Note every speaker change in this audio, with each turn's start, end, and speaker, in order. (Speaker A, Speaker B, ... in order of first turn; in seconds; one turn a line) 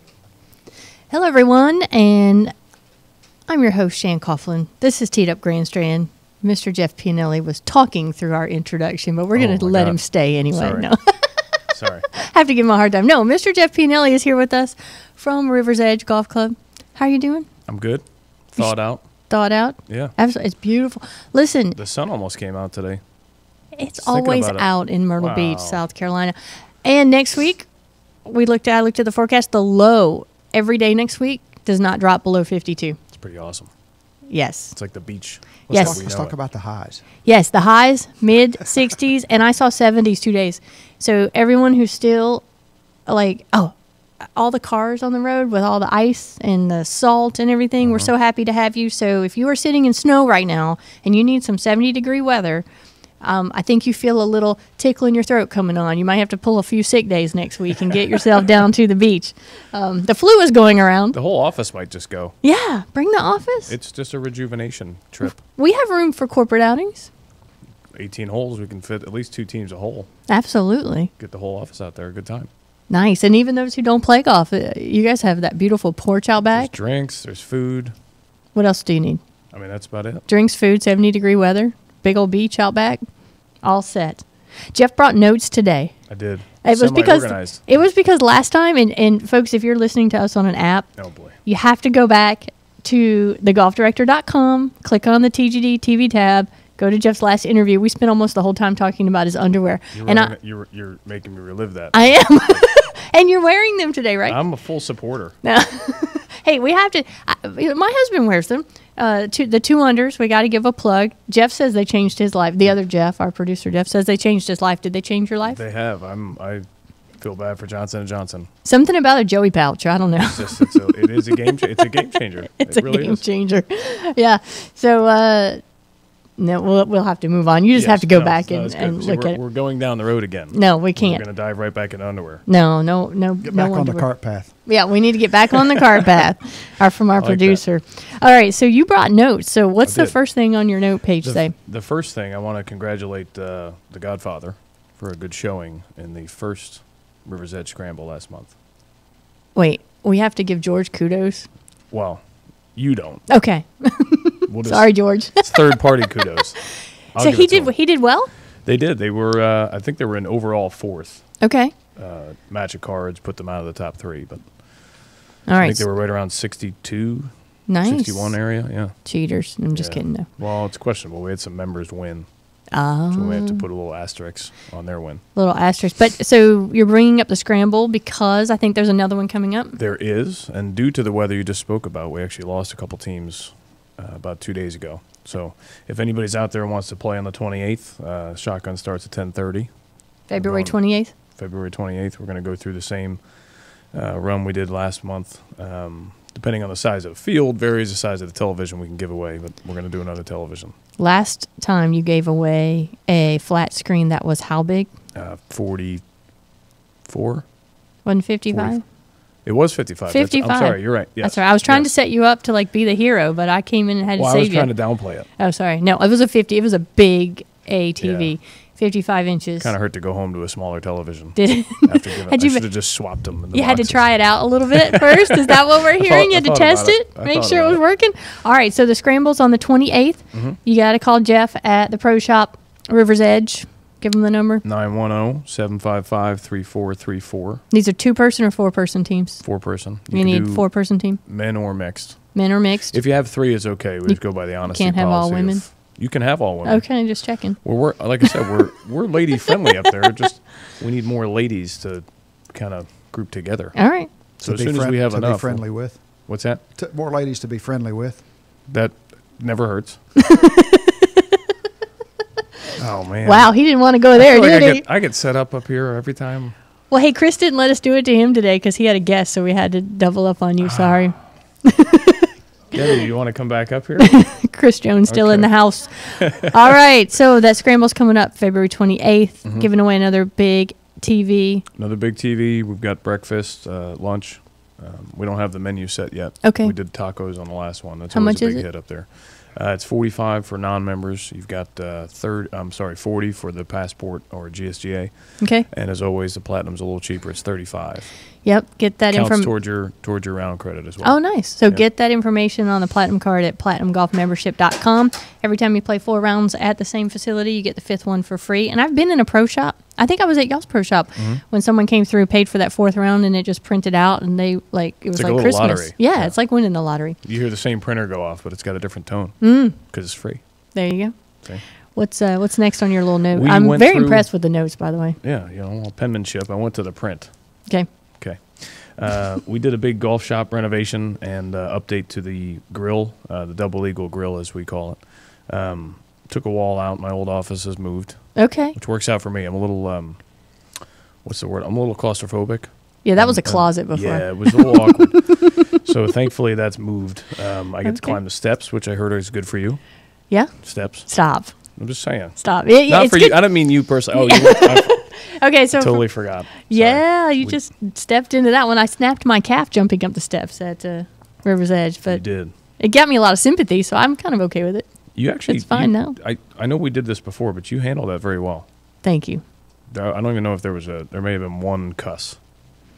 Speaker A: 1.1-2.5
Speaker A: 3.5-11.5
Speaker B: 9.3-10.9
Speaker B: 11.7-12.1
Speaker A: 12.1-17.5
Speaker B: 17.7-19.1
Speaker A: 18.6-21.8
Speaker B: 19.9-20.1
Speaker B: 21.7-23.0
Speaker A: 23.8-27.7
Speaker B: 24.0-25.8
Speaker A: 28.2-33.0
Speaker B: 33.1-33.7
Speaker A: 34.3-35.0
Speaker B: 34.7-36.4
Speaker A: 35.7-36.0
Speaker C: 35.7-37.0
Speaker A: 37.2-42.5
Speaker A: 43.0-52.6
Speaker B: 47.8-48.1
Speaker A: 53.2-61.2
Speaker B: 61.1-62.3
Speaker A: 62.4-63.7
Speaker B: 63.7-65.4
Speaker A: 65.3-67.1
Speaker B: 67.9-70.1
Speaker A: 70.3-71.1
Speaker B: 71.2-72.5
Speaker A: 72.9-76.7
Speaker B: 76.5-77.9
Speaker A: 78.5-79.2
Speaker B: 79.5-80.2
Speaker A: 80.3-83.0
Speaker A: 83.6-100.3
Speaker B: 86.1-87.7
Speaker B: 91.0-91.3
Speaker B: 99.9-102.7
Speaker A: 101.9-104.4
Speaker B: 104.3-105.3
Speaker A: 105.4-115.6
Speaker B: 115.5-118.5
Speaker A: 118.6-122.0
Speaker B: 120.2-123.2
Speaker A: 122.6-125.7
Speaker A: 126.3-129.4
Speaker B: 127.7-132.4
Speaker A: 130.5-131.3
Speaker A: 132.4-141.5
Speaker C: 133.4-134.9
Speaker B: 137.2-137.6
Speaker B: 139.8-140.2
Speaker B: 141.2-148.6
Speaker A: 149.5-151.5
Speaker B: 151.9-153.3
Speaker A: 153.3-156.1
Speaker B: 154.4-175.2
Speaker A: 157.1-158.3
Speaker A: 161.4-161.7
Speaker A: 165.4-165.8
Speaker A: 167.7-170.2
Speaker A: 172.7-173.7
Speaker A: 175.3-179.8
Speaker B: 179.8-200.7
Speaker A: 190.3-191.1
Speaker A: 201.0-204.9
Speaker B: 205.1-206.2
Speaker B: 207.0-207.5
Speaker A: 208.0-208.8
Speaker B: 208.5-211.9
Speaker A: 210.1-219.7
Speaker B: 214.2-215.3
Speaker B: 218.0-218.3
Speaker B: 219.6-227.8
Speaker A: 221.3-234.6
Speaker B: 230.3-230.6
Speaker B: 234.6-237.6
Speaker A: 237.7-241.2
Speaker B: 239.4-256.6
Speaker A: 242.3-246.1
Speaker A: 246.6-248.2
Speaker A: 253.7-254.1
Speaker C: 254.4-258.2
Speaker B: 258.6-260.1
Speaker A: 260.3-261.2
Speaker B: 262.8-266.5
Speaker A: 263.2-264.8
Speaker A: 266.9-272.3
Speaker B: 272.7-274.4
Speaker A: 274.0-281.6
Speaker B: 275.1-275.9
Speaker B: 279.4-279.7
Speaker B: 281.7-298.3
Speaker A: 286.4-286.7
Speaker A: 288.1-288.6
Speaker A: 295.4-295.7
Speaker A: 298.4-299.5
Speaker B: 299.1-301.8
Speaker A: 301.0-317.2
Speaker B: 311.1-311.4
Speaker B: 315.1-320.8
Speaker A: 319.4-320.1
Speaker A: 320.7-325.2
Speaker B: 323.3-324.3
Speaker B: 325.2-357.6
Speaker A: 338.3-338.8
Speaker A: 343.0-345.4
Speaker A: 347.8-348.2
Speaker A: 350.3-366.2
Speaker B: 362.1-362.5
Speaker B: 365.1-368.7
Speaker A: 369.0-369.4
Speaker B: 369.9-372.4